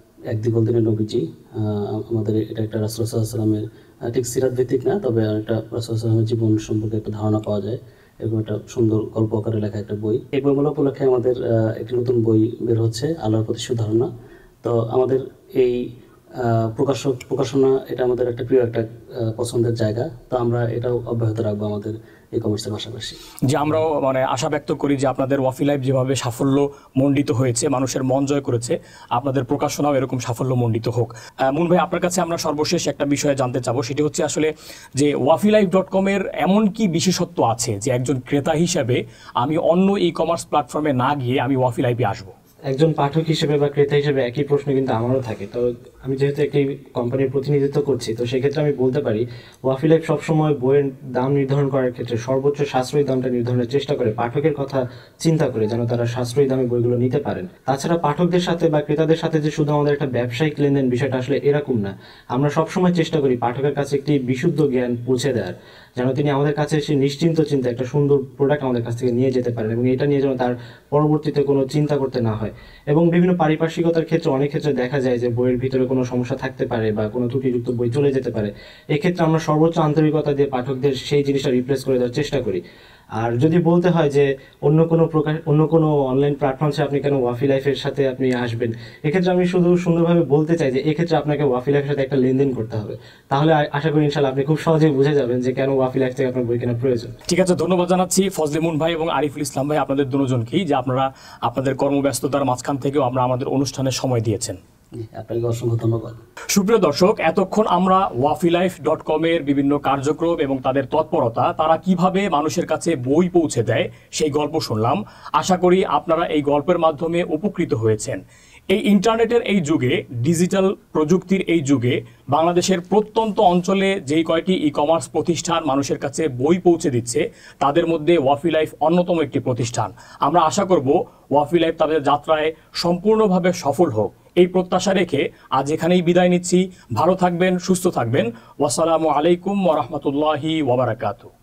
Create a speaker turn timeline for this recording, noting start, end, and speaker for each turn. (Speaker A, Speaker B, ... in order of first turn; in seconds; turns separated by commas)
Speaker A: 0.3-14.1, Speaker A: 14.6-15.8, Speaker A: 16.4-23.2, Speaker B: 23.5-42.3, Speaker C: 42.7-82.6, Speaker C: 83.2-97.1, Speaker B: 97.3-104.6, Speaker A: 105.0-106.2, Speaker B: 106.5-118.2, Speaker B: 118.7-141.3